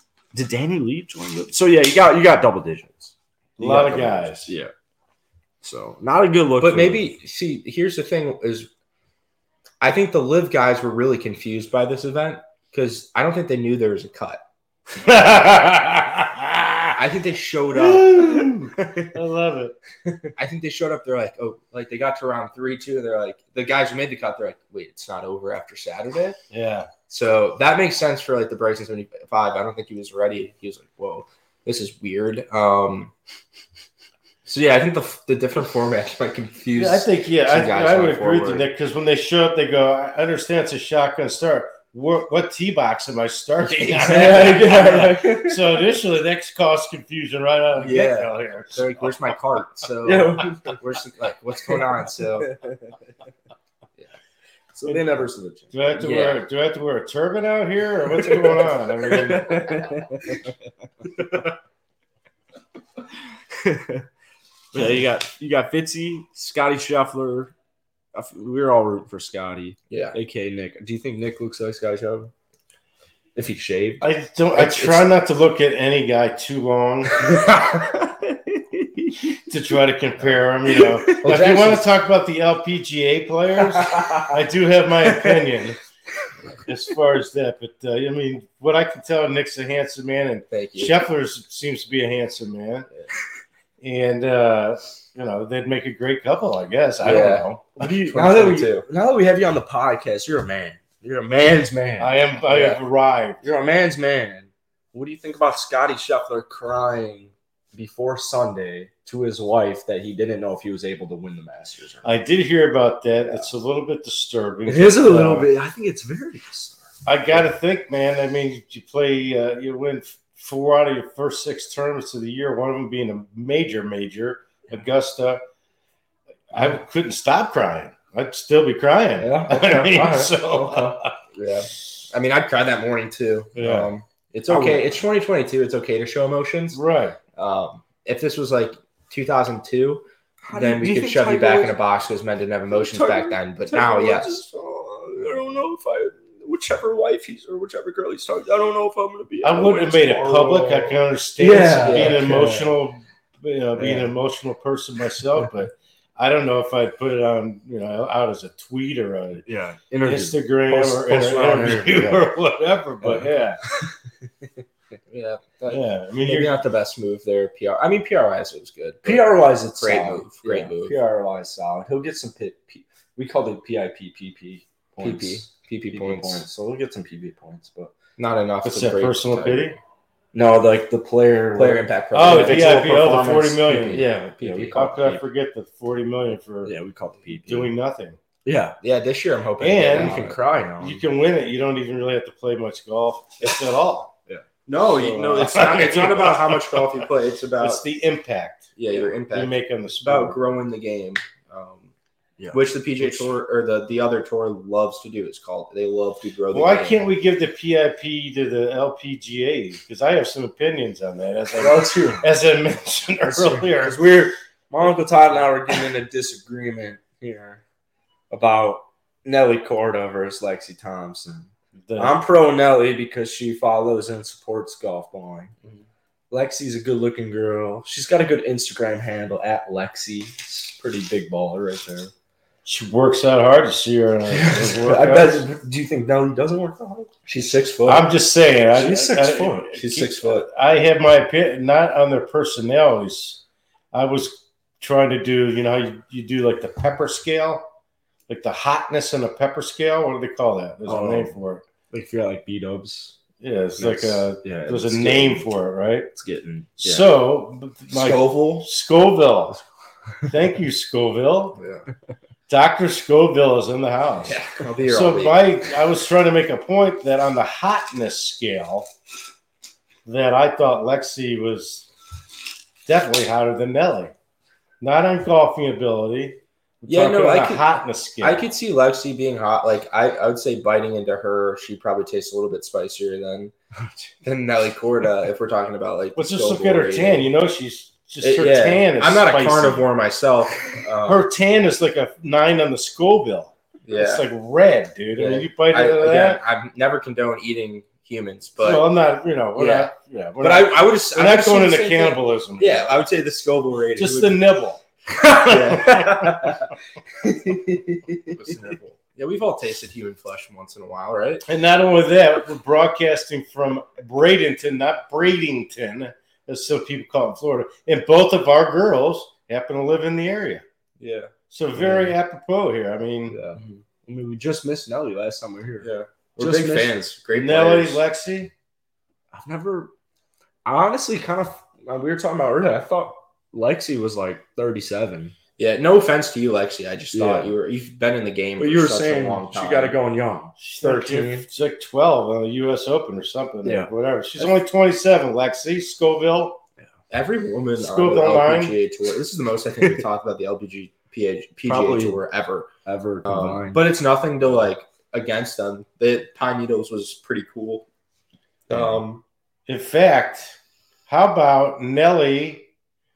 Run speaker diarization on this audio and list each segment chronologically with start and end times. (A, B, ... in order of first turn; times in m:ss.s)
0:00.3-0:04.7 A
0:03.6-0:04.5 B
0:05.6-0:07.1 A
0:06.6-0:08.7 C
0:09.8-0:14.4 C
0:15.0-0:17.0 B
0:16.9-0:18.7 C
0:17.7-0:19.8 B
0:20.4-0:26.4 C
0:26.5-0:26.9 B
0:27.1-0:33.1 C
0:34.4-0:38.6 C
0:36.7-0:49.1 B
0:43.7-0:45.0 C
0:44.0-0:45.8 A
0:47.8-0:52.5 C
0:50.0-0:50.8 A
0:52.4-0:53.0 A
0:54.7-0:55.7 A
0:55.7-0:59.9 B
0:55.9-0:56.4 C
0:58.1-1:00.5 A
1:03.5-1:04.0 A
1:04.7-1:07.5 A
1:08.1-1:12.3 A
1:09.9-1:10.2 C
1:13.4-1:14.1 A
1:14.0-1:17.2 B
1:14.6-1:15.0 C
1:17.2-1:17.9 C
1:17.3-1:19.4 A
1:19.5-1:25.8 B
1:20.7-1:21.2 A
1:21.2-1:21.8 C
1:23.7-1:24.3 A
1:25.1-1:25.4 A
1:26.6-1:32.9 B
1:30.5-1:31.0 C
1:33.8-1:37.8 B
1:37.0-1:38.9 C
1:37.0-1:42.7 A
1:42.0-1:43.4 B
1:42.5-1:42.8 C
1:43.4-1:52.1 A
1:52.0-1:55.5 B
1:54.7-1:56.8 A
1:57.0-2:05.4 B
2:06.5-2:11.2 B
2:09.2-2:11.0 A
2:11.3-2:16.8 C
2:13.6-2:13.9 B
2:14.5-2:14.9 A
2:16.7-2:17.2 B
2:17.4-2:24.4 C
2:20.5-2:21.8 A
2:22.7-2:32.7 A
2:29.4-2:39.4 B
2:31.8-2:32.3 C
2:33.8-2:34.1 A
2:39.4-2:42.3 A
2:40.0-2:43.6 B
2:43.0-2:43.9 A
2:45.1-2:51.0 C
2:45.7-2:46.6 B
2:49.0-2:57.9 A
2:55.0-2:56.4 C
2:58.2-2:59.8 C
2:58.6-2:59.7 B
3:00.3-3:03.7 A
3:01.5-3:04.9 C
3:02.1-3:06.7 B
3:04.4-3:05.2 A
3:06.6-3:07.7 A
3:07.4-3:08.2 B
3:08.4-3:08.8 A
3:08.8-3:10.4 C
3:09.6-3:10.2 B
3:09.9-3:11.0 A
3:10.8-3:14.1 B
3:14.7-3:17.8 C
3:14.9-3:17.1 B
3:17.6-3:18.7 B
3:18.8-3:21.9 C
3:19.3-3:20.4 B
3:22.4-3:23.3 A
3:22.5-3:27.0 C
3:26.5-3:34.0 B
3:31.6-3:32.3 A
3:33.2-3:37.6 A
3:38.3-3:45.5 A
3:41.8-3:42.2 B
3:46.3-3:52.1 A
3:52.6-3:55.5 B
3:54.3-3:58.1 A
3:57.8-4:07.7 B
3:58.7-3:59.8 A
3:59.8-4:00.5 C
4:08.3-4:11.6 B
4:10.8-4:11.3 A
4:11.9-4:13.2 A
4:13.4-4:16.1 B
4:13.8-4:15.4 A
4:16.1-4:17.1 A
4:16.8-4:19.6 B
4:17.9-4:18.7 C
4:20.3-4:21.6 B
4:21.6-4:21.8 C
4:22.5-4:28.9 B
4:24.2-4:25.7 C
4:30.0-4:31.9 B
4:32.8-4:34.1 B
4:34.8-4:38.4 B
4:36.9-4:37.7 C
4:38.2-4:43.5 C
4:44.2-4:47.3 C
4:46.2-4:49.8 B
4:48.2-4:51.3 C
4:51.0-4:56.4 B
4:53.8-4:54.2 C
4:55.2-4:58.9 C
4:58.6-5:03.0 B
4:59.6-5:04.4 C
5:04.0-5:06.6 B
5:05.3-5:06.6 C
5:06.2-5:06.6 A
5:07.2-5:08.4 A
5:08.2-5:11.4 C
5:11.5-5:20.6 B
5:21.0-5:22.1 A
5:21.5-5:23.4 B
5:23.3-5:26.9 A
5:23.6-5:23.8 C
5:25.8-5:28.0 C
5:27.4-5:28.5 B
5:29.3-5:29.9 A
5:30.6-5:35.4 A
5:35.6-5:40.0 C
5:37.1-5:37.5 A
5:38.6-5:41.5 A
5:40.6-5:46.6 B
5:43.6-5:44.5 A
5:47.1-5:52.7 C
5:47.8-5:48.8 B
5:51.6-5:52.2 A
5:52.8-5:53.8 A
5:53.2-5:57.8 C
5:58.7-5:59.2 C
5:59.7-6:02.7 B